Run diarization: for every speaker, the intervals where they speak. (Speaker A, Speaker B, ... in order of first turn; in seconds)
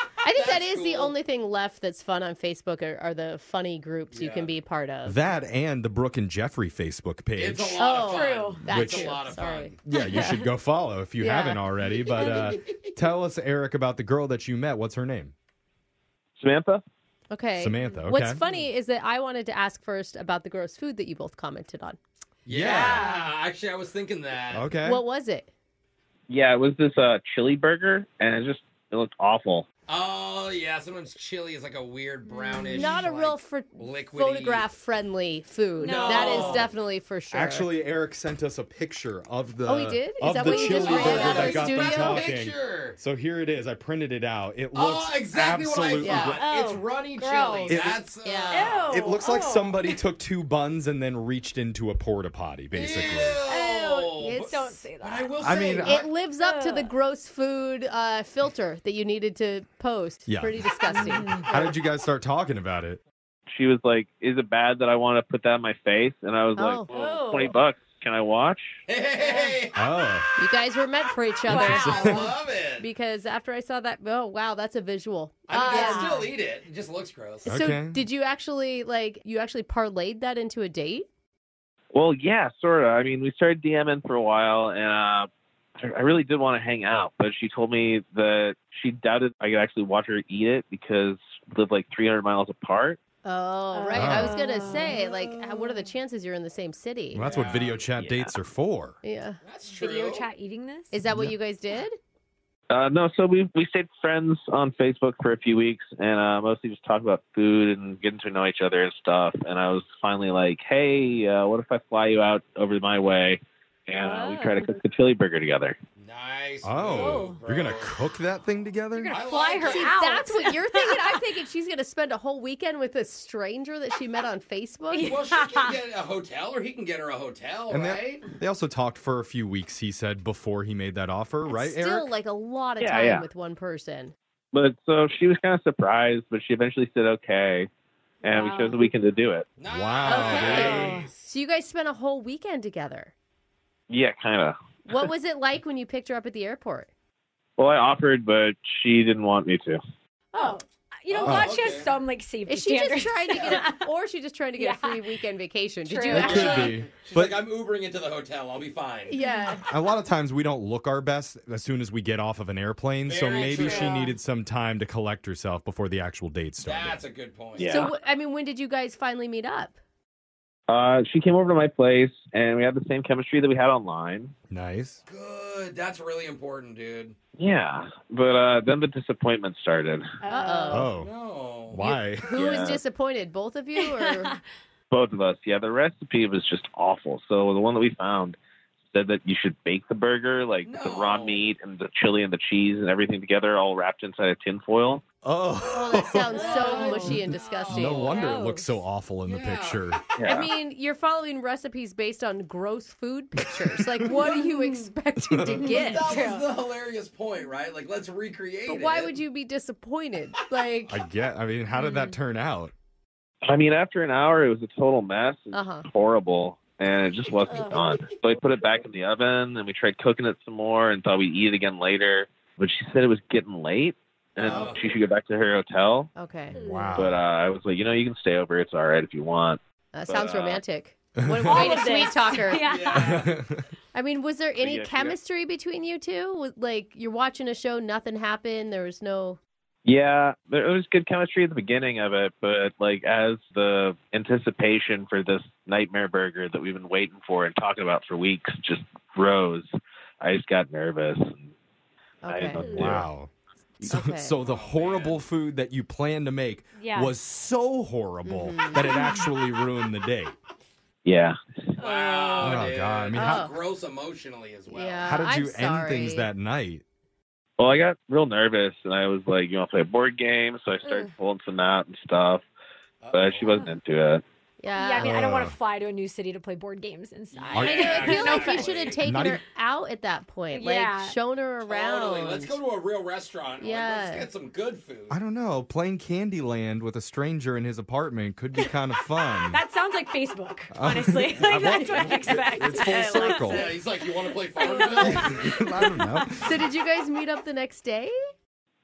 Speaker A: 0.2-5.2, 7.8-9.8, 11.2-11.6, 17.3-22.0, 24.8-25.5, 32.7-37.7, 39.6-42.3, 46.0-46.4, 48.2-48.8, 54.2-54.8, 55.8-61.8, 66.5-66.9, 70.4-76.3, 77.5-81.1, 93.2-97.2, 99.0-99.4, 100.9-102.0, 119.5-125.2, 131.5-134.1, 140.1-143.1, 144.9-146.9, 150.3-150.6, 152.4-156.7, 159.1-159.6, 167.6-169.8, 180.3-180.9, 182.3-184.3, 195.6-198.3, 200.2-206.1, 208.7-211.0, 215.5-215.8, 226.2-226.6, 229.9-232.7, 233.9-239.4, 252.2-252.6, 253.8-254.3, 258.2-258.9, 263.1-263.5, 264.7-266.3, 274.6-275.2, 277.8-282.6, 283.6-284.3, 296.4-298.1
Speaker B: 0.3-1.1, 4.1-4.5, 7.3-9.8, 12.2-12.6, 22.4-24.7, 29.9-34.6, 35.8-36.7, 40.4-43.0, 44.7-48.9, 52.7-56.1, 68.9-69.8, 71.5-72.9, 75.5-77.5, 97.2-97.9, 99.4-100.2, 116.0-117.9, 119.1-120.0, 125.0-128.2, 139.6-141.1, 151.1-151.9, 153.3-153.6, 156.2-159.2, 163.0-164.1, 166.6-167.9, 175.1-177.2, 181.0-181.9, 190.6-191.5, 196.3-198.3, 199.2-200.0, 205.6-209.2, 217.5-218.0, 224.4-225.0, 232.5-233.3, 254.4-255.2, 261.8-265.1, 273.0-273.7, 277.3-279.0, 281.7-285.1, 293.3-295.6
Speaker C: 5.0-7.9, 8.7-9.1, 9.8-15.3, 17.6-18.4, 22.5-23.1, 24.5-25.0, 37.3-46.5, 47.7-48.0, 48.9-53.4, 55.4-56.0, 60.3-63.0, 69.7-70.3, 71.5-72.2, 77.5-78.0, 94.0-94.4, 97.1-99.0, 101.1-101.3, 116.6-119.2, 127.7-132.1, 139.7-140.9, 151.2-151.6, 156.1-157.4, 159.7-167.0, 174.5-175.0, 180.7-181.1, 181.7-182.3, 195.2-200.0, 203.6-204.1, 205.3-205.7, 210.9-212.7, 224.4-224.7, 226.5-227.2, 231.2-231.7, 232.9-233.6, 252.6-253.3, 253.8-260.3, 262.4-263.4, 265.0-266.8, 275.0-275.6, 277.5-278.1, 279.0-279.4, 285.1-289.6, 290.7-293.8, 294.9-296.6
Speaker D: 7.9-8.8, 9.9-10.4, 22.7-23.3, 32.3-33.0, 35.8-36.6, 40.7-41.4, 46.3-47.8, 48.5-50.0, 53.5-55.4, 56.3-56.9, 60.9-61.4, 66.9-67.6, 75.7-76.2, 93.7-95.9, 99.7-101.0, 114.0-114.7, 116.9-117.4, 118.9-121.2, 124.9-125.8, 138.3-138.9, 140.3-141.1, 150.3-153.9, 154.6-155.1, 155.8-156.7, 159.2-159.6, 163.5-164.2, 180.2-180.9, 183.8-184.4, 196.4-197.2, 198.1-198.8, 204.4-204.9, 205.6-206.5, 211.7-212.2, 217.5-217.8, 226.5-227.0, 231.4-233.2, 252.6-253.0, 256.8-257.1, 261.8-262.6, 270.8-271.1, 274.7-278.7, 280.5-281.2, 289.4-296.0
Speaker E: 16.4-16.8, 26.3-29.6, 63.5-68.8, 81.9-85.3, 85.8-93.0, 98.0-98.3, 102.7-115.8, 132.8-133.3, 134.5-137.7, 138.2-139.5, 140.4-141.0, 143.9-144.6, 147.6-149.8, 167.6-167.9, 170.7-174.3, 177.4-180.1, 182.3-182.8, 184.9-188.4, 188.9-195.0, 200.2-200.5, 213.4-226.1, 226.9-230.6, 234.6-235.2, 239.8-249.7, 250.2-251.5, 252.3-253.1, 261.0-261.4, 267.6-272.4, 273.1-274.2